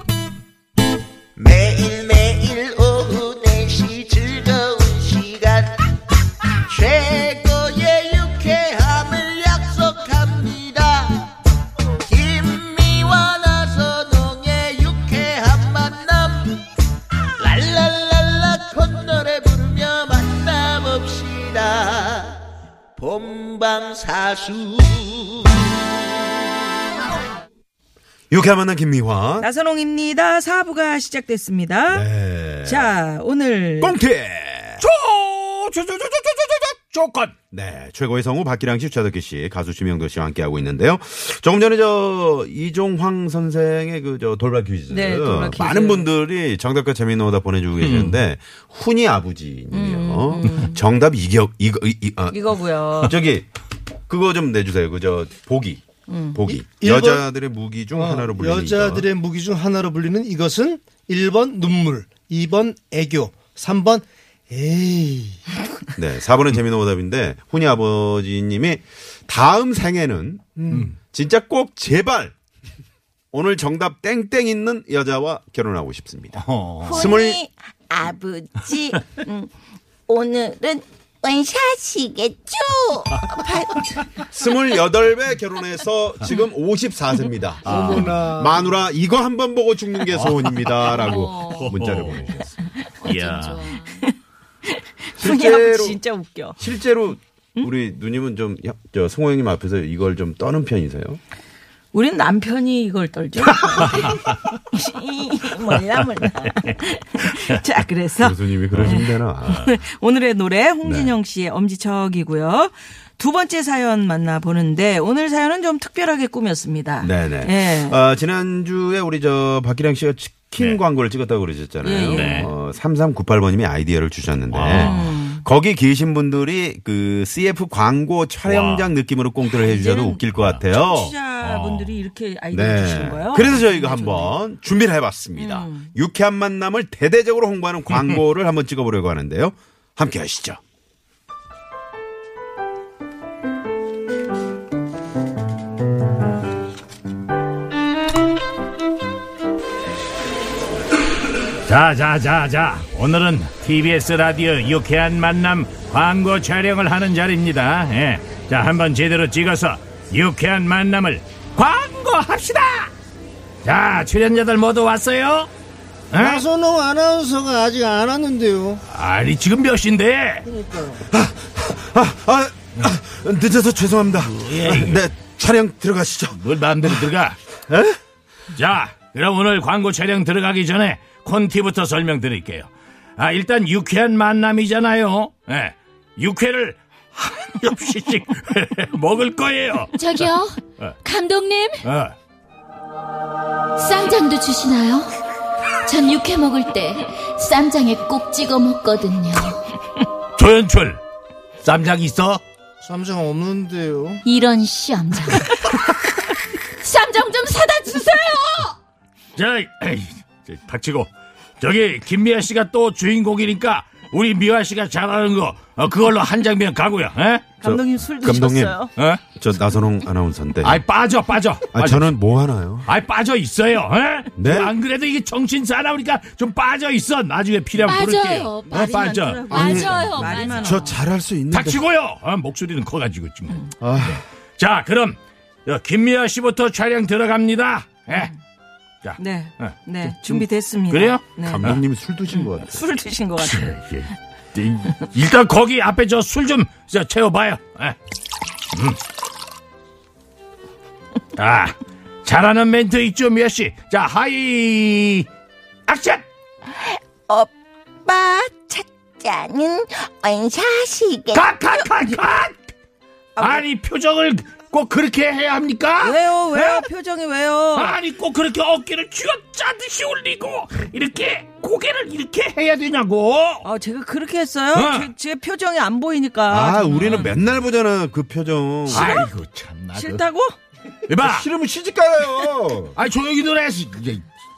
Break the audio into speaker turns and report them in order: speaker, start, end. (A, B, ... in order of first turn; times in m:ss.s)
0:01.4-0:05.7 A
0:06.7-0:11.3 A
0:12.0-0:16.5 A
0:17.4-0:22.3 A
0:23.0-0:25.5 A
0:28.3-0:29.5 B
0:29.4-0:32.1 C
0:31.9-0:32.9 B
0:32.6-0:34.0 C
0:33.8-0:34.8 B
0:34.8-0:37.3 D
0:37.5-0:52.4 B
0:44.9-0:46.1 C
0:47.8-0:48.2 D
0:49.7-0:50.8 C
0:52.3-0:53.2 C
0:52.9-0:53.5 B
0:54.1-0:55.8 B
0:56.1-0:56.4 C
0:56.3-0:59.1 B
0:56.6-0:57.2 E
0:57.9-1:05.4 E
1:06.0-1:12.3 B
1:13.3-1:17.4 B
1:16.4-1:17.1 D
1:16.9-1:19.2 F
1:18.7-1:19.5 C
1:20.1-1:23.8 F
1:24.3-1:32.4 B
1:27.6-1:28.2 D
1:27.7-1:28.7 E
1:30.1-1:32.3 D
1:31.0-1:31.7 G
1:32.3-1:34.0 G
1:33.0-1:33.7 D
1:33.9-1:34.1 C
1:34.7-1:36.6 C
1:35.2-1:36.0 B
1:36.6-1:41.2 B
1:41.9-1:58.0 C
1:48.2-1:49.7 B
1:48.7-1:49.0 D
1:50.8-1:51.1 B
1:57.0-2:11.2 B
2:01.8-2:02.5 C
2:02.1-2:02.5 D
2:04.5-2:05.1 D
2:04.7-2:05.4 C
2:08.4-2:08.9 D
2:09.4-2:14.3 C
2:10.4-2:10.6 D
2:11.4-2:12.0 D
2:12.5-2:20.6 B
2:15.4-2:15.9 C
2:31.6-2:42.9 D
2:43.6-2:45.5 D
2:46.1-2:46.4 D
2:46.1-2:48.8 E
2:48.9-2:50.4 D
2:50.4-2:51.0 E
2:51.1-2:57.0 B
2:54.2-2:55.0 D
2:56.3-2:57.4 D
2:57.7-2:58.0 B
2:58.5-3:10.3 D
3:09.9-3:11.9 G
3:11.8-3:12.1 D
3:13.8-3:15.1 G
3:15.8-3:19.6 G
3:20.4-3:21.0 D
3:21.6-3:22.4 D
3:22.8-3:24.2 E
3:24.2-3:25.7 G
3:26.8-3:28.7 G
3:29.4-3:37.5 D
3:37.6-3:38.9 C
3:37.6-3:38.8 B
3:39.0-3:39.2 D
3:39.4-3:40.8 B
3:40.6-3:42.1 D
3:41.7-3:42.9 B
3:42.8-3:50.0 D
3:44.4-3:44.7 B
3:47.8-3:50.9 G
3:48.7-3:51.0 C
3:49.5-3:51.8 B
3:51.5-3:58.3 D
3:53.8-3:54.2 B
3:59.0-4:01.8 D
3:59.2-4:01.6 C
4:01.4-4:02.8 B
4:02.3-4:03.7 C
4:03.4-4:08.0 D
4:08.7-4:09.0 D
4:11.4-4:15.3 D
4:15.9-4:16.2 D
4:16.7-4:17.5 F
4:18.0-4:21.9 F
4:21.3-4:22.6 D
4:23.4-4:23.6 C
4:23.4-4:26.8 D
4:26.0-4:28.0 C
4:27.7-4:33.6 D
4:33.6-4:37.3 C
4:34.7-4:35.1 D
4:36.5-4:39.2 B
4:36.9-4:37.3 D
4:38.9-4:40.2 D
4:38.9-4:39.3 C
4:39.9-4:40.5 C
4:41.1-4:41.5 D
4:41.2-4:42.9 B
4:42.9-4:44.2 D